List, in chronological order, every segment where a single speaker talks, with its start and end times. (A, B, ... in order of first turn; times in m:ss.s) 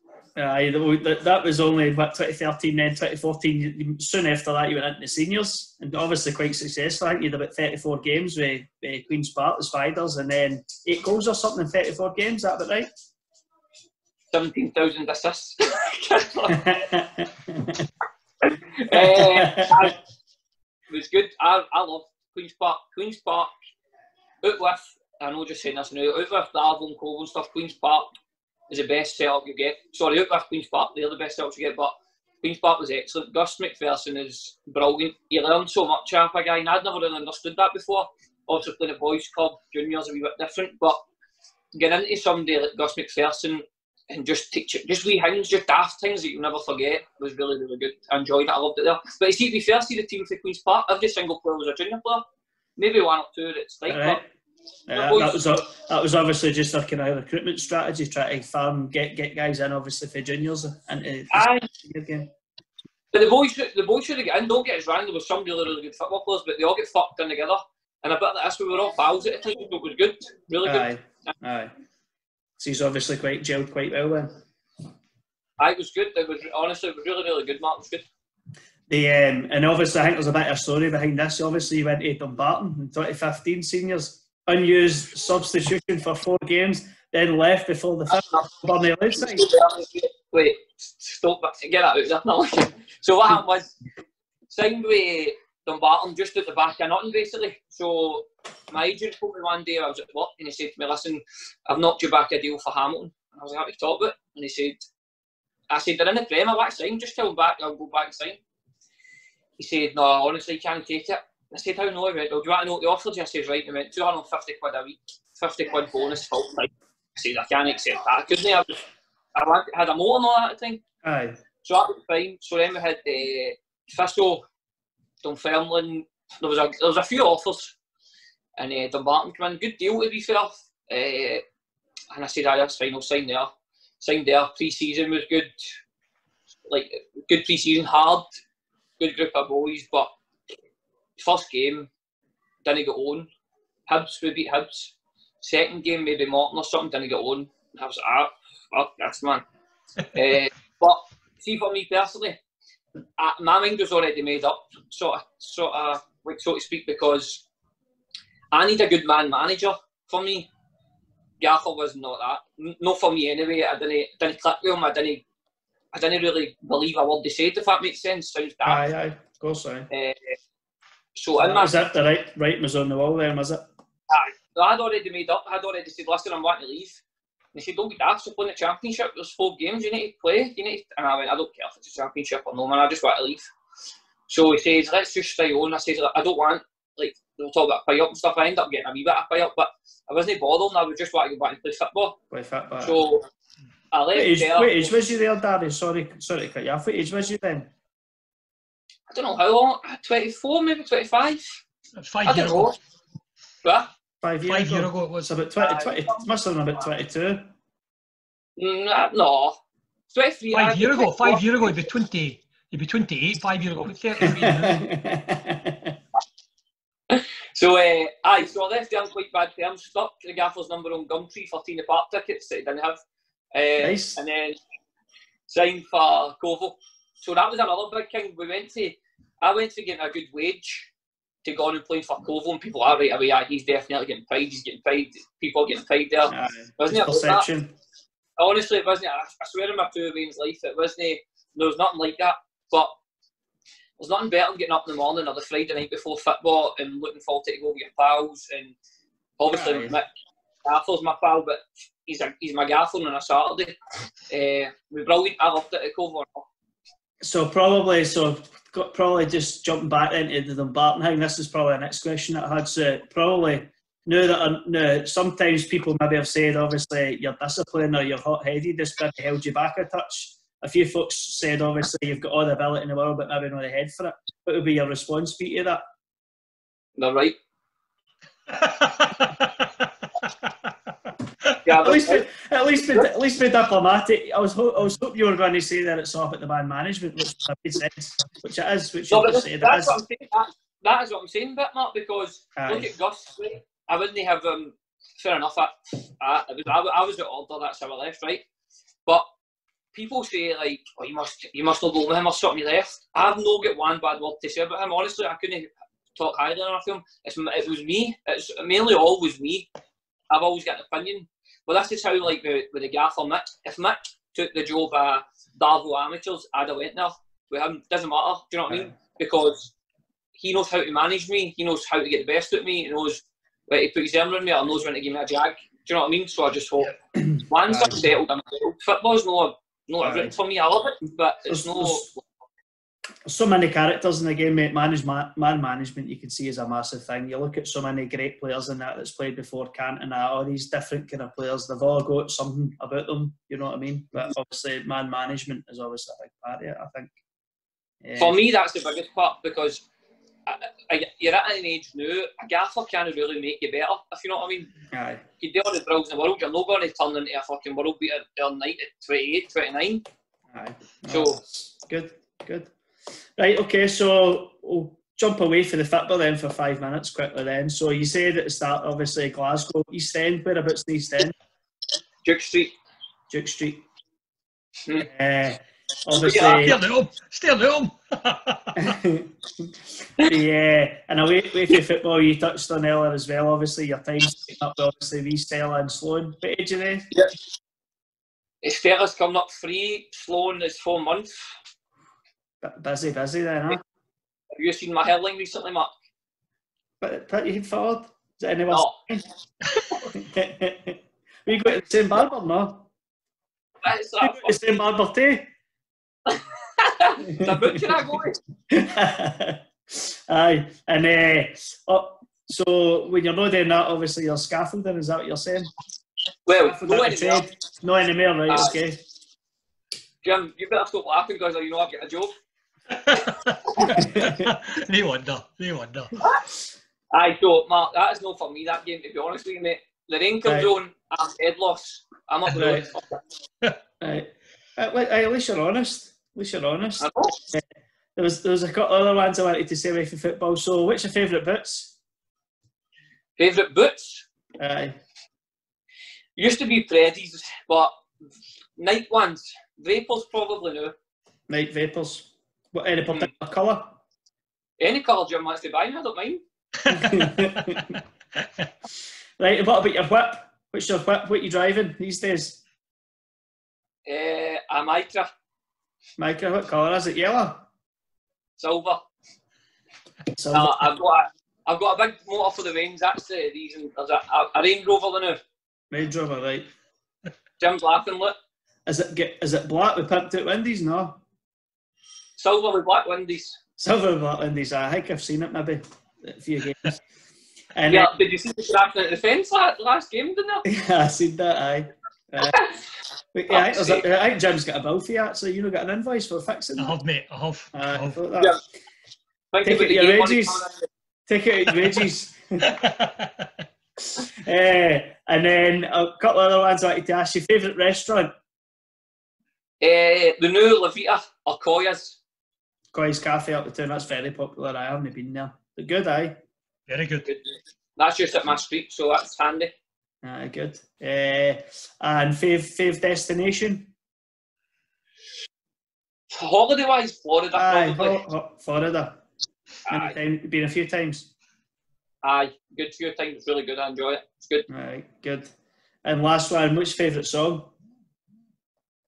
0:00.4-0:12.9 A
0:14.3-0:16.8 B
0:16.5-0:17.8 A
0:18.5-0:20.0 B
0:18.9-0:19.9 A
0:20.9-0:23.5 B
0:24.4-0:28.1 B
0:28.7-0:41.0 B
0:41.7-0:52.2 B
0:52.8-0:54.2 B
0:53.9-0:54.3 A
0:54.9-1:02.3 A
0:54.9-0:55.6 B
1:01.3-1:01.7 B
1:03.1-1:11.3 B
1:10.6-1:11.7 A
1:12.6-1:14.4 A
1:15.6-1:18.1 B
1:18.9-1:29.4 A
1:28.1-1:28.4 B
1:29.1-1:33.8 B
1:34.5-1:44.8 B
1:45.7-1:48.4 B
1:49.6-1:58.8 B
1:59.3-2:00.8 B
2:01.0-2:01.4 A
2:01.6-2:04.4 B
2:05.2-2:07.7 B
2:08.6-2:11.4 B
2:12.1-2:15.5 B
2:16.7-2:18.4 B
2:19.0-2:20.1 B
2:21.2-2:21.9 B
2:22.6-2:23.3 B
2:23.9-2:29.4 B
2:30.1-2:32.4 B
2:33.2-2:37.4 B
2:38.5-2:40.5 B
2:41.4-2:45.2 B
2:45.9-2:48.9 B
2:48.6-2:49.9 A
2:49.9-2:50.4 B
2:51.2-2:51.8 B
2:51.4-2:53.7 A
2:54.1-2:57.0 B
2:57.5-3:03.5 B
3:04.3-3:12.2 B
3:12.3-3:13.0 A
3:12.8-3:13.3 B
3:13.9-3:14.9 B
3:14.1-3:17.7 A
3:19.1-3:21.6 B
3:22.0-3:22.7 C
3:22.2-3:22.7 B
3:23.6-3:23.9 B
3:24.2-3:27.5 A
3:24.4-3:25.3 C
3:25.6-3:26.3 B
3:28.6-3:29.6 B
3:30.1-3:31.8 B
3:30.5-3:34.8 C
3:34.2-3:36.0 A
3:37.1-3:43.0 B
3:43.5-3:44.6 B
3:43.8-3:44.2 A
3:45.5-3:50.9 B
3:51.4-3:57.4 B
3:56.3-3:57.7 A
3:58.4-4:02.9 B
4:04.0-4:08.8 B
4:09.4-4:10.1 B
4:09.5-4:10.0 A
4:10.6-4:13.7 B
4:14.3-4:16.4 B
4:17.2-4:35.8 A
4:37.0-4:37.4 B
4:38.6-4:39.6 C
4:41.6-4:42.2 B
4:41.7-4:50.0 A
4:49.1-4:58.4 B
4:52.6-4:52.9 A
4:59.9-5:09.7 B
5:10.3-5:19.7 B
5:18.7-5:18.9 A
5:20.4-5:32.2 B
5:27.2-5:28.0 A
5:30.0-5:30.3 A
5:31.5-5:32.1 A
5:33.2-5:47.1 A
5:48.0-5:48.4 A
5:48.2-5:49.8 B
5:50.4-5:54.7 B
5:54.9-5:55.2 A
5:55.4-6:00.0 B
6:00.5-6:02.7 A
6:01.1-6:01.4 B
6:03.4-6:11.3 A
6:12.2-6:12.8 B
6:13.3-6:13.8 A
6:15.0-6:16.8 A
6:16.1-6:16.7 B
6:16.5-6:19.0 C
6:18.8-6:27.1 A
6:28.6-6:31.5 B
6:32.6-6:33.8 A
6:34.5-6:35.9 B
6:37.0-6:39.2 A
6:40.0-6:42.9 A
6:43.8-6:44.5 B
6:44.2-6:45.5 A
6:46.3-6:48.4 B
6:47.3-6:48.0 A
6:48.7-6:55.7 A
6:56.4-6:57.4 B
6:56.7-6:59.0 A
6:58.5-6:58.7 B
7:00.2-7:02.3 B
7:02.9-7:06.1 C
7:03.8-7:04.5 A
7:06.2-7:06.4 B
7:07.1-7:13.1 B
7:10.4-7:10.7 A
7:12.6-7:12.8 A
7:14.0-7:17.6 A
7:17.0-7:17.4 B
7:18.2-7:21.9 A
7:23.4-7:24.2 B
7:24.6-7:25.0 A
7:26.4-7:28.0 B
7:28.8-7:30.9 B
7:31.5-7:34.0 A
7:34.8-7:36.4 B
7:36.9-7:38.0 A
7:36.9-7:37.2 C
7:39.4-7:42.6 A
7:44.0-7:45.3 B
7:46.2-7:47.6 A
7:48.6-7:49.0 B
7:50.3-7:50.9 A
7:50.5-7:55.4 B
7:55.9-7:56.7 A
7:57.6-7:58.4 B
7:58.8-8:01.2 A
8:02.4-8:03.6 B
8:03.8-8:07.0 A
8:07.7-8:08.1 A
8:07.9-8:10.6 B
8:10.6-8:12.6 A
8:12.4-8:12.8 B
8:13.3-8:17.0 A
8:13.5-8:14.0 B
8:16.8-8:18.2 C
8:17.7-8:18.6 A
8:19.5-8:20.8 B
8:19.6-8:20.7 A
8:21.3-8:22.8 A
8:22.6-8:23.4 C
8:24.4-8:28.3 A
8:29.8-8:32.2 B
8:32.9-8:36.4 A
8:36.9-8:37.3 C
8:37.2-8:39.7 B
8:40.2-8:43.9 A
8:46.3-8:48.2 B
8:47.5-8:49.2 A
8:49.9-8:50.1 B
8:49.9-8:51.3 A
8:52.2-8:54.7 B
8:54.7-8:55.5 A
8:56.0-8:57.7 A